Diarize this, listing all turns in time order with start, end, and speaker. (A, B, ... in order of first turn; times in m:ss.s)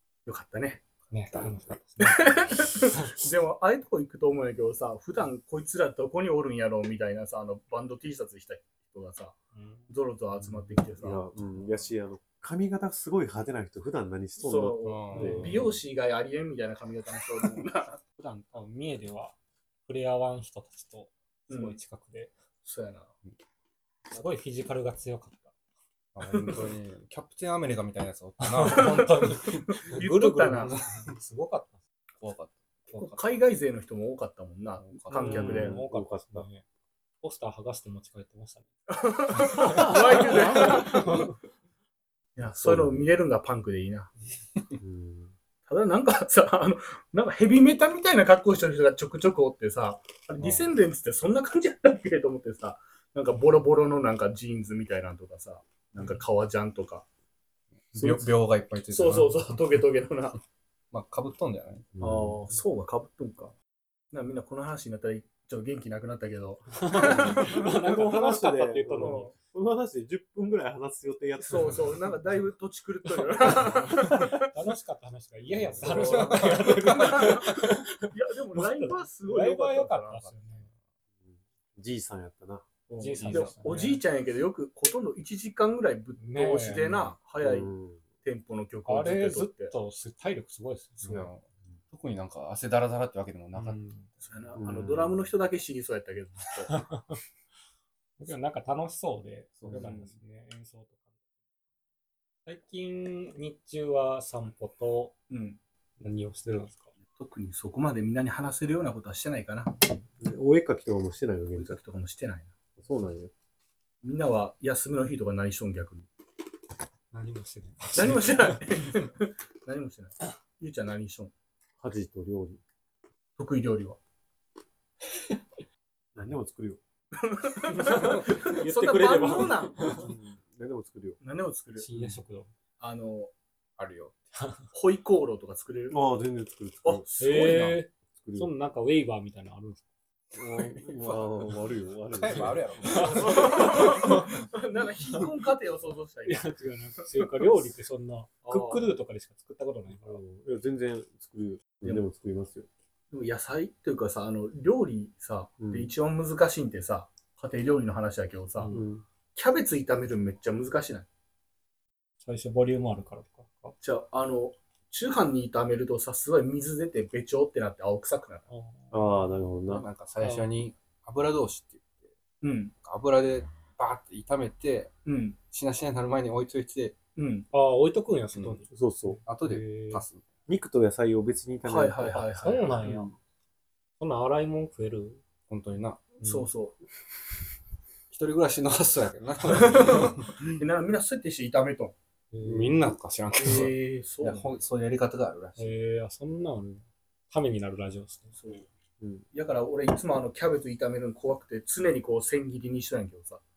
0:00.2-0:00.8 A
0:01.1-0:02.4 B
0:02.0-0:09.3 A
0:09.5-0:09.9 B
0:09.9-0:11.2 A
0:11.0-0:15.8 C
0:14.4-0:18.0 A
0:14.8-0:15.6 D
0:15.1-0:15.7 B
0:18.2-0:19.3 B
0:19.8-0:22.3 B
0:21.5-0:21.8 A
0:22.6-0:23.1 A
0:24.0-0:25.5 B
0:26.1-0:29.6 D
0:28.4-0:31.8 B
0:28.7-0:29.0 A
0:29.7-0:30.7 A
0:30.7-0:31.1 D
0:32.2-0:33.2 D
0:33.0-0:35.8 A
0:34.8-0:35.5 D
0:35.1-0:36.6 B
0:35.2-0:36.5 C
0:37.2-0:38.7 B
0:38.9-0:41.3 A
0:39.4-0:41.3 B
0:39.6-0:41.3 C
0:42.4-0:44.1 A
0:42.4-0:43.1 C
0:44.8-0:45.3 C
0:45.7-0:57.0 A
0:50.4-0:50.6 C
0:57.9-0:59.6 D
0:58.0-0:58.3 A
0:58.9-1:00.4 A
1:00.9-1:01.9 D
1:02.0-1:02.4 C
1:02.0-1:03.5 A
1:04.1-1:07.6 A
1:06.8-1:09.3 B
1:07.0-1:12.1 C
1:09.0-1:09.3 A
1:11.5-1:14.4 A
1:13.5-1:20.7 B
1:15.5-1:16.3 C
1:15.8-1:20.3 A
1:16.0-1:16.7 D
1:21.2-1:22.6 C
1:22.9-1:27.7 A
1:23.0-1:24.0 B
1:23.2-1:23.5 D
1:26.2-1:27.2 B
1:27.4-1:28.0 C
1:28.2-1:29.7 A
1:28.9-1:31.3 B
1:31.0-1:33.8 D
1:33.5-1:34.1 B
1:34.2-1:36.9 A
1:34.5-1:35.3 C
1:36.9-1:37.2 B
1:38.2-1:41.0 B
1:39.6-1:40.0 C
1:39.7-1:40.1 A
1:42.4-1:45.1 B
1:45.3-1:45.6 A
1:46.0-1:46.9 B
1:47.1-1:49.8 A
1:50.2-1:51.8 C
1:51.5-1:52.5 A
1:52.8-1:53.3 C
1:54.0-1:56.1 A
1:57.1-1:58.6 B
1:57.9-2:01.3 A
2:01.8-2:02.6 C
2:03.4-2:04.0 A
2:06.1-2:06.8 C
2:07.2-2:10.0 A
2:07.7-2:10.1 B
2:09.8-2:11.2 C
2:11.2-2:11.8 A
2:11.8-2:12.5 B
2:11.9-2:12.2 C
2:12.8-2:13.3 A
2:13.8-2:14.2 D
2:14.7-2:16.0 A
2:15.9-2:17.0 C
2:16.8-2:17.8 A
2:17.2-2:19.8 B
2:18.1-2:18.5 C
2:20.3-2:23.2 C
2:20.4-2:21.5 D
2:22.1-2:24.1 D
2:22.9-2:24.4 B
2:23.2-2:26.5 A
2:26.2-2:30.2 B
2:28.4-2:28.9 A
2:29.9-2:32.7 C
2:33.1-2:38.7 A
2:35.6-2:35.9 C
2:38.6-2:38.9 B
2:38.7-2:39.0 C
2:39.3-2:41.1 A
2:42.2-2:43.8 B
2:43.8-2:48.4 A
2:48.5-2:49.2 B
2:48.9-2:49.9 C
2:49.7-2:52.1 D
2:50.2-2:50.5 B
2:52.4-2:52.7 A
2:52.8-2:54.9 D
2:55.0-2:55.4 A
2:55.5-2:56.9 D
2:57.2-2:57.5 A
2:57.5-3:00.0 B
2:58.3-2:58.6 D
2:58.7-2:59.2 C
2:59.2-3:00.2 D
3:00.5-3:03.1 C
3:01.6-3:02.7 A
3:02.4-3:03.1 B
3:04.0-3:05.2 B
3:05.5-3:06.1 D
3:06.2-3:06.8 A
3:06.2-3:06.5 B
3:08.1-3:10.3 D
3:09.9-3:11.9 A
3:12.3-3:12.8 B
3:12.4-3:15.7 D
3:13.4-3:14.6 A
3:15.6-3:18.3 B
3:18.4-3:18.7 A
3:19.0-3:19.2 C
3:19.3-3:23.4 A